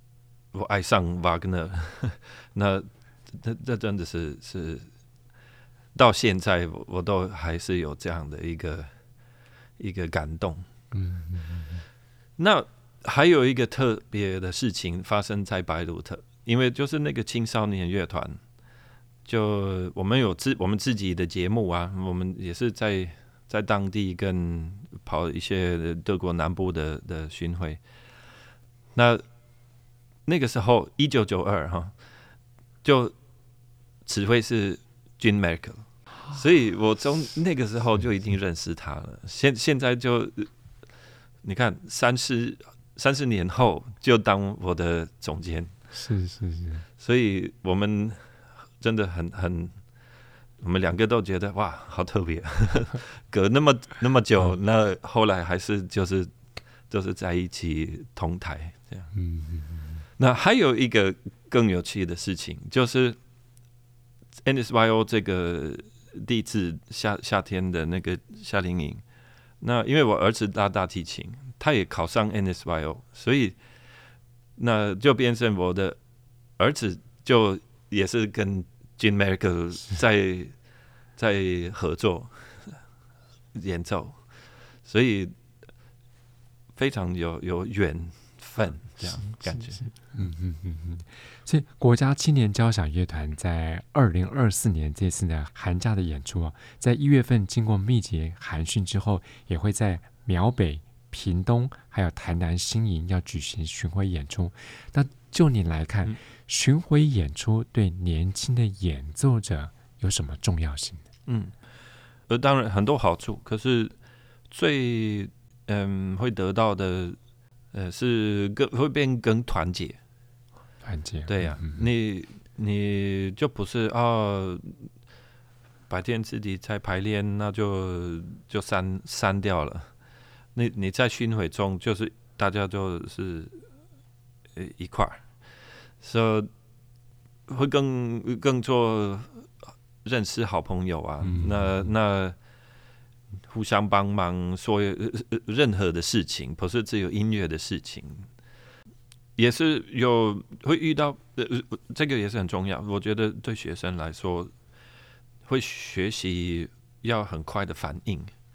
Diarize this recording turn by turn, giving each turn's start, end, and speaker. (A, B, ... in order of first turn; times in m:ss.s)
0:00.5-0:04.9 A
0:05.9-0:08.9 A
0:09.8-0:10.6 A
0:10.9-0:11.8 B
0:12.4-0:18.4 A
0:19.2-0:27.8 A
0:28.9-0:29.2 A
0:30.2-0:31.9 A
0:32.8-0:33.2 A
0:34.0-0:40.5 A
0:41.4-0:45.7 A
0:45.9-0:46.8 B
0:47.0-0:49.8 A
0:50.6-0:56.3 A
0:56.9-0:59.1 A
0:59.1-1:00.0 B
1:00.2-1:03.2 A
1:04.4-1:09.0 A
1:09.6-1:13.6 A
1:14.6-1:16.0 A
1:16.6-1:20.5 A
1:21.2-1:22.8 A
1:23.5-1:24.2 A
1:24.8-1:25.3 A
1:26.8-1:29.9 A
1:29.0-1:51.0 B
1:51.3-1:51.6 A
1:52.3-1:53.9 A
1:54.5-1:57.2 A
1:57.7-2:00.0 A
2:00.8-2:01.8 B
2:01.2-2:04.9 A
2:05.9-2:09.9 A
2:10.5-2:13.6 A
2:14.5-2:15.3 A
2:16.0-2:16.5 A
2:17.5-2:19.5 A
2:20.0-2:22.4 A
2:21.2-2:21.9 B
2:23.4-2:28.3 A
2:29.4-2:34.5 A
2:35.4-2:38.3 A